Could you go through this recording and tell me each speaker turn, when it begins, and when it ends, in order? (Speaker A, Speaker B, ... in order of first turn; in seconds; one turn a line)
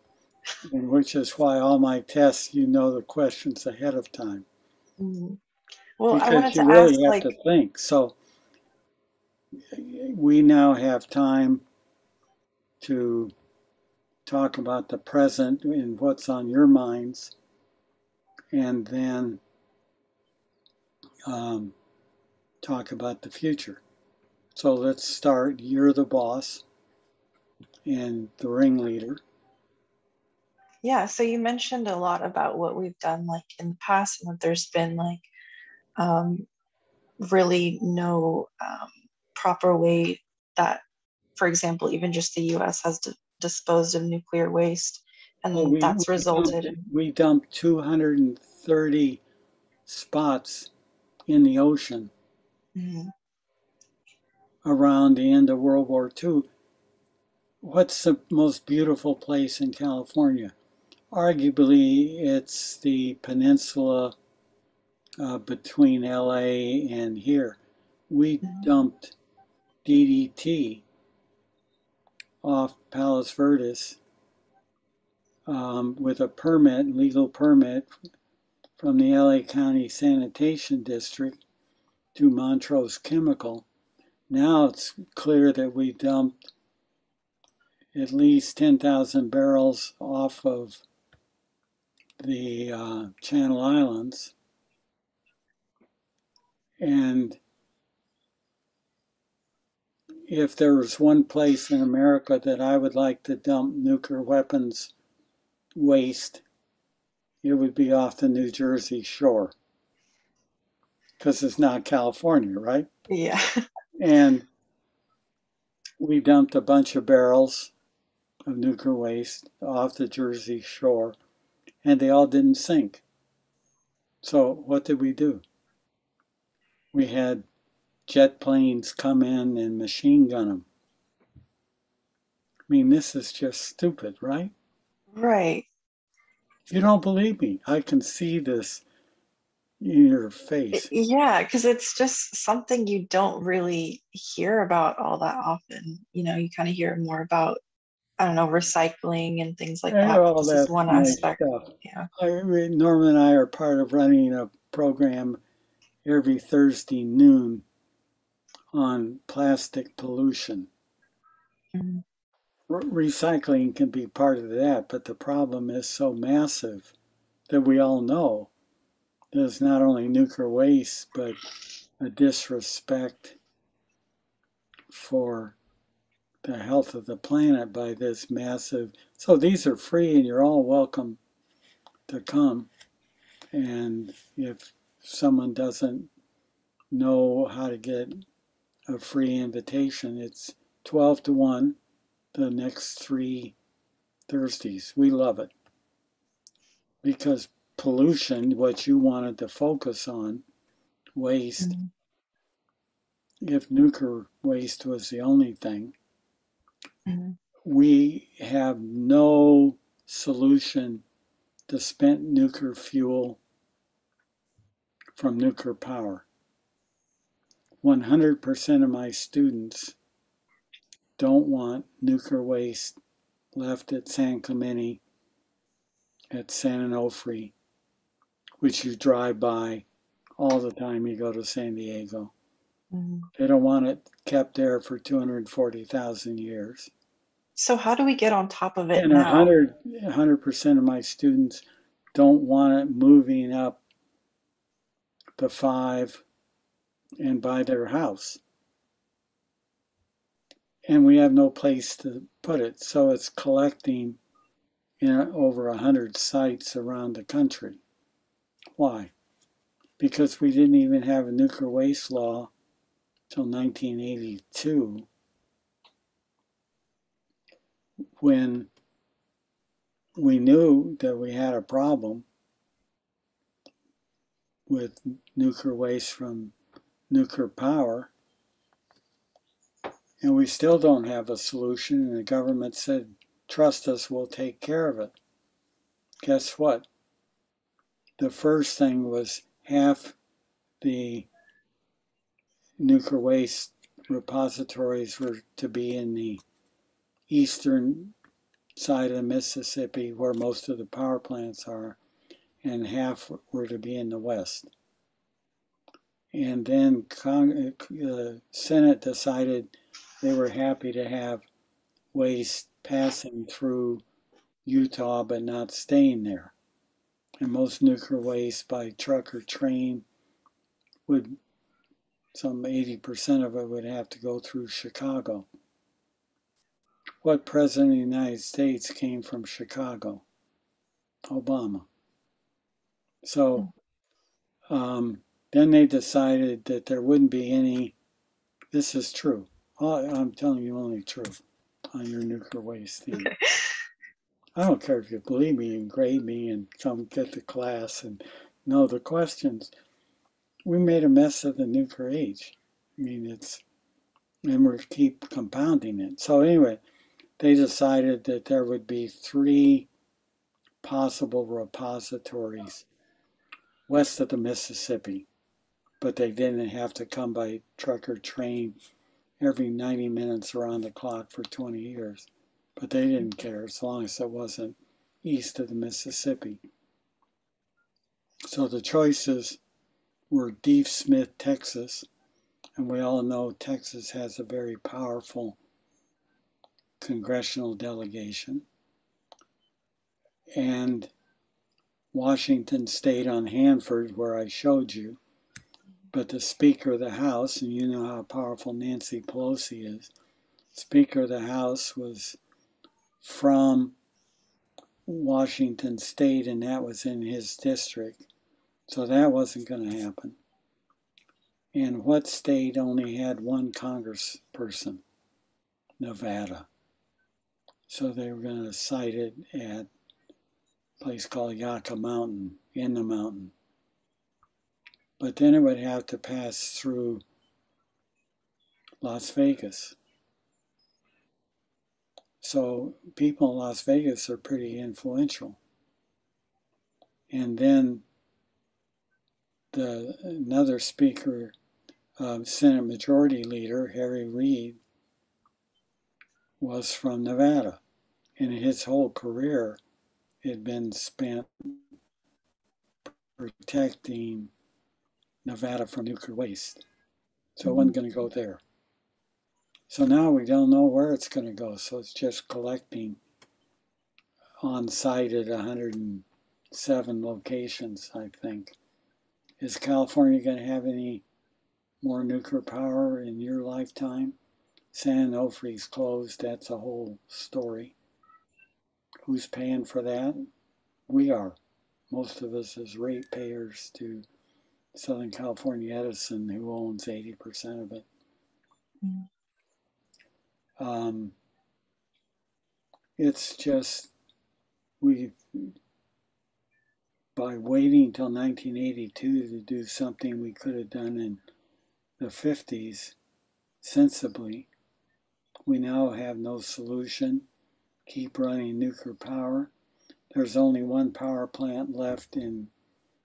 Speaker A: 0.6-4.5
Speaker B: 5.0-5.4
Speaker B: 6.0-7.3
Speaker A: 6.1-8.2
Speaker A: 9.7-11.6
Speaker A: 12.8-13.3
Speaker A: 14.2-17.3
Speaker A: 18.5-19.4
Speaker A: 21.2-21.7
Speaker A: 22.6-23.8
Speaker A: 24.5-26.6
Speaker A: 27.9-29.2
Speaker B: 30.8-35.2
Speaker B: 36.0-36.5
Speaker B: 37.2-40.8
Speaker B: 41.4-46.8
Speaker A: 45.5-49.2
Speaker A: 49.9-50.7
Speaker A: 51.3-52.1
Speaker B: 52.7-53.1
Speaker A: 54.6-56.5
Speaker A: 57.6-60.5
Speaker A: 61.1-64.1
Speaker A: 65.2-69.2
Speaker A: 69.8-70.8
Speaker A: 72.4-74.0
Speaker A: 75.5-77.9
Speaker A: 78.8-81.4
Speaker A: 82.1-83.7
Speaker A: 84.3-86.3
Speaker A: 87.9-90.8
Speaker A: 92.2-94.3
Speaker A: 96.8-97.4
Speaker A: 100.3-104.9
Speaker A: 105.8-106.4
Speaker A: 107.4-109.5
Speaker A: 111.2-112.9
Speaker B: 113.1-113.6
Speaker A: 114.0-114.5
Speaker A: 116.0-117.7
Speaker A: 118.5-121.2
Speaker A: 121.8-123.0
Speaker A: 124.2-125.4
Speaker A: 126.9-127.5
Speaker A: 128.1-130.6
Speaker A: 132.7-134.5
Speaker B: 135.1-135.7
Speaker A: 136.7-138.8
Speaker A: 139.8-140.9
Speaker B: 140.7-147.6
Speaker B: 148.2-152.1
Speaker A: 149.9-155.4
Speaker A: 156.0-157.6
Speaker A: 158.7-160.7
Speaker B: 161.7-162.0
Speaker A: 162.7-166.9
Speaker A: 167.5-168.5
Speaker A: 169.3-171.4
Speaker A: 172.0-173.4
Speaker A: 174.9-175.6
Speaker A: 176.4-181.2
Speaker A: 182.1-182.7
Speaker A: 183.5-186.1
Speaker A: 186.9-188.2
Speaker A: 188.9-191.8
Speaker A: 192.3-193.6
Speaker A: 194.3-195.5
Speaker A: 197.0-200.4
Speaker A: 201.2-201.8
Speaker B: 201.6-201.9
Speaker A: 203.4-205.9
Speaker B: 207.1-207.4
Speaker A: 207.6-211.0
Speaker A: 211.7-213.4
Speaker A: 215.2-216.2
Speaker A: 217.8-219.9
Speaker A: 221.2-223.0
Speaker A: 223.5-225.0
Speaker A: 226.3-227.5
Speaker A: 228.6-229.8
Speaker A: 230.4-232.3
Speaker B: 232.9-233.3
Speaker A: 233.3-236.9
Speaker B: 237.6-239.5
Speaker A: 238.9-243.8
Speaker A: 245.4-246.2
Speaker A: 247.2-248.4
Speaker A: 250.9-254.2
Speaker A: 255.0-257.8
Speaker A: 258.8-259.1
Speaker A: 260.0-262.5
Speaker A: 263.3-265.1
Speaker A: 268.2-268.7
Speaker A: 270.2-272.2
Speaker A: 274.7-276.5
Speaker A: 277.1-278.1
Speaker A: 280.2-285.1
Speaker A: 286.2-286.9
Speaker A: 288.2-290.1
Speaker A: 290.8-291.3
Speaker A: 292.8-296.4
Speaker A: 297.3-298.1
Speaker A: 298.8-302.0
Speaker A: 302.6-304.7
Speaker A: 306.3-311.4
Speaker A: 312.1-314.0
Speaker A: 314.6-316.5
Speaker A: 317.4-320.0
Speaker A: 321.1-321.4
Speaker A: 322.3-325.5
Speaker A: 327.2-330.2
Speaker A: 331.3-331.9
Speaker A: 333.2-333.7
Speaker A: 334.7-337.9
Speaker A: 338.7-341.4
Speaker A: 341.9-343.3
Speaker B: 343.1-343.7
Speaker A: 344.6-349.7
Speaker A: 350.6-353.6
Speaker A: 354.5-356.8
Speaker A: 357.4-359.9
Speaker A: 360.8-362.9
Speaker A: 363.9-365.3
Speaker A: 366.0-368.8
Speaker A: 369.4-376.6
Speaker A: 378.5-379.6
Speaker A: 380.3-382.1
Speaker A: 382.8-385.6
Speaker A: 387.0-388.6
Speaker A: 390.6-391.1
Speaker A: 392.1-395.2
Speaker A: 396.1-400.1
Speaker A: 400.7-402.4
Speaker A: 403.2-403.9
Speaker A: 405.1-408.3
Speaker A: 408.9-410.4
Speaker A: 411.7-415.0
Speaker A: 416.0-416.7
Speaker A: 417.9-419.9
Speaker A: 421.0-423.5
Speaker A: 425.2-427.2
Speaker A: 429.0-429.9
Speaker A: 432.4-435.6
Speaker A: 437.3-438.0
Speaker A: 439.7-441.5
Speaker A: 442.2-444.8
Speaker A: 446.6-447.8
Speaker A: 448.4-449.8
Speaker A: 450.4-451.8
Speaker A: 453.4-454.5
Speaker A: 455.4-456.8
Speaker A: 457.6-458.6
Speaker B: 457.6-457.9
Speaker A: 459.9-463.2
Speaker A: 464.6-468.8
Speaker A: 469.6-471.2
Speaker A: 472.0-474.4
Speaker A: 474.9-477.9
Speaker A: 479.2-480.4
Speaker A: 481.1-481.6
Speaker A: 482.1-484.2
Speaker A: 484.9-488.1
Speaker B: 489.0-489.3
Speaker A: 490.8-491.3
Speaker A: 493.2-494.1
Speaker A: 495.0-495.8
Speaker A: 497.4-501.4
Speaker A: 502.2-503.1
Speaker A: 503.8-504.7
Speaker A: 505.6-507.4
Speaker A: 508.1-509.7
Speaker A: 510.3-512.7